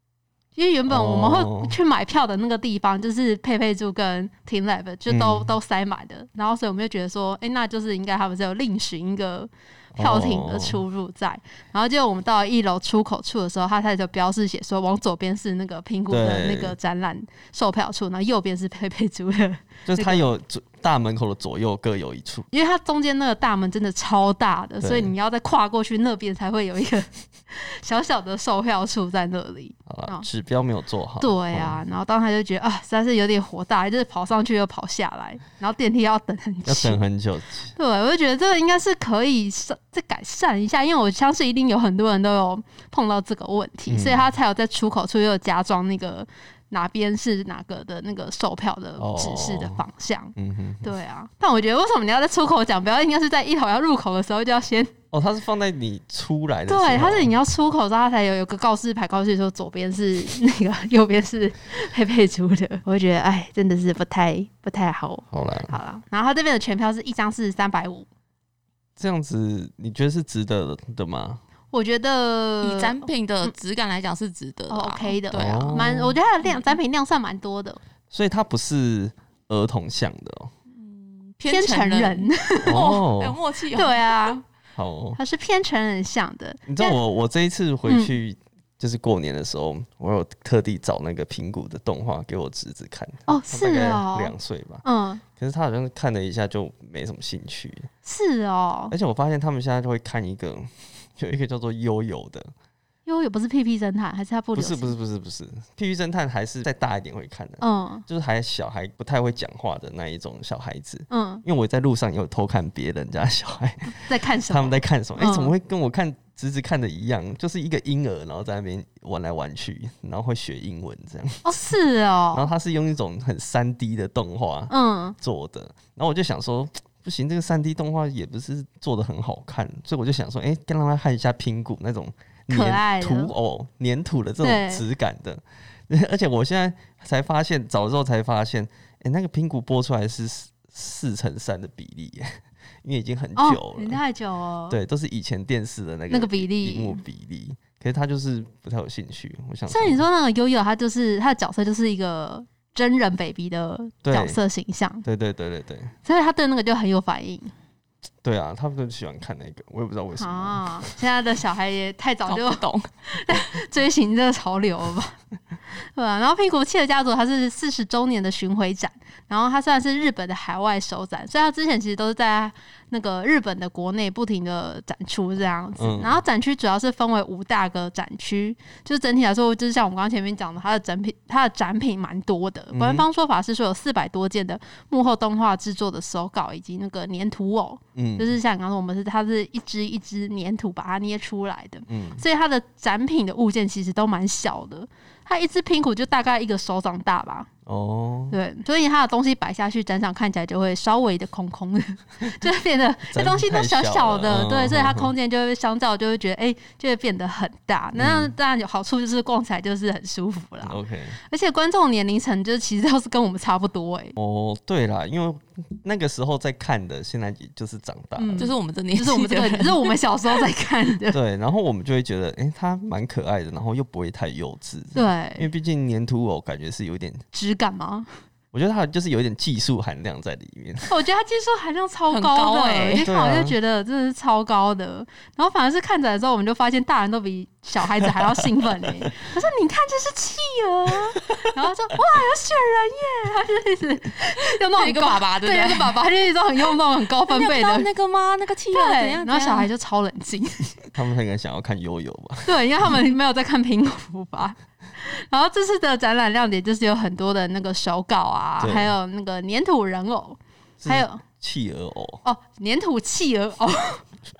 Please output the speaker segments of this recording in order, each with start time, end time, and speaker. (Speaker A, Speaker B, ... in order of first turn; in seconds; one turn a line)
Speaker A: 0.6-20.3
Speaker B: 0.9-1.8
Speaker B: 5.1-5.5
Speaker B: 9.9-10.8
Speaker B: 16.1-16.8
Speaker B: 19.9-22.5
Speaker A: 22.5-30.2
Speaker B: 24.8-25.1
Speaker B: 29.9-31.8
Speaker A: 31.2-37.0
Speaker B: 36.6-37.7
Speaker A: 37.7-54.9
Speaker B: 43.9-44.3
Speaker B: 49.0-49.8
Speaker B: 50.4-50.9
Speaker B: 55.1-57.3
Speaker A: 56.7-68.1
Speaker B: 65.3-65.8
Speaker B: 69.0-71.4
Speaker A: 71.7-73.5
Speaker C: 72.6-75.8
Speaker A: 74.7-77.8
Speaker B: 75.3-76.2
Speaker C: 76.5-76.8
Speaker B: 78.1-80.5
Speaker C: 80.7-84.4
Speaker A: 81.5-82.8
Speaker B: 82.6-83.4
Speaker A: 83.8-84.4
Speaker B: 84.7-85.2
Speaker A: 85.2-87.0
Speaker B: 86.7-94.8
Speaker A: 87.9-88.1
Speaker A: 93.3-95.2
Speaker B: 95.4-97.9
Speaker A: 98.0-98.9
Speaker B: 98.9-102.5
Speaker A: 103.0-104.9
Speaker B: 104.5-121.5
Speaker A: 107.6-108.0
Speaker A: 111.1-111.4
Speaker A: 113.9-115.5
Speaker A: 121.4-122.5
Speaker B: 122.3-144.0
Speaker A: 124.7-125.2
Speaker A: 132.5-133.3
Speaker A: 134.4-134.8
Speaker A: 143.3-144.8
Speaker B: 144.7-150.0
Speaker A: 146.1-147.0
Speaker A: 149.7-155.0
Speaker B: 154.0-154.4
Speaker B: 155.0-155.9
Speaker A: 156.0-157.5
Speaker B: 158.2-160.9
Speaker A: 160.2-165.2
Speaker C: 162.2-162.9
Speaker A: 165.9-197.5
Speaker B: 175.8-176.2
Speaker B: 182.7-183.0
Speaker B: 187.9-188.3
Speaker B: 191.9-192.2
Speaker B: 197.7-198.3
Speaker A: 198.3-210.8
Speaker B: 203.1-205.1
Speaker B: 207.9-208.3
Speaker B: 210.6-211.2
Speaker A: 211.3-214.2
Speaker B: 214.2-218.5
Speaker A: 218.2-221.2
Speaker C: 218.4-219.9
Speaker B: 221.1-227.2
Speaker A: 224.9-225.4
Speaker A: 227.3-228.1
Speaker B: 228.5-230.9
Speaker A: 230.9-247.9
Speaker C: 232.1-233.0
Speaker B: 233.0-233.5
Speaker B: 238.0-238.4
Speaker C: 244.4-246.0
Speaker C: 247.3-249.7
Speaker A: 248.7-250.8
Speaker B: 250.9-252.9
Speaker A: 252.4-261.2
Speaker B: 258.6-258.9
Speaker B: 260.8-262.2
Speaker A: 262.2-264.0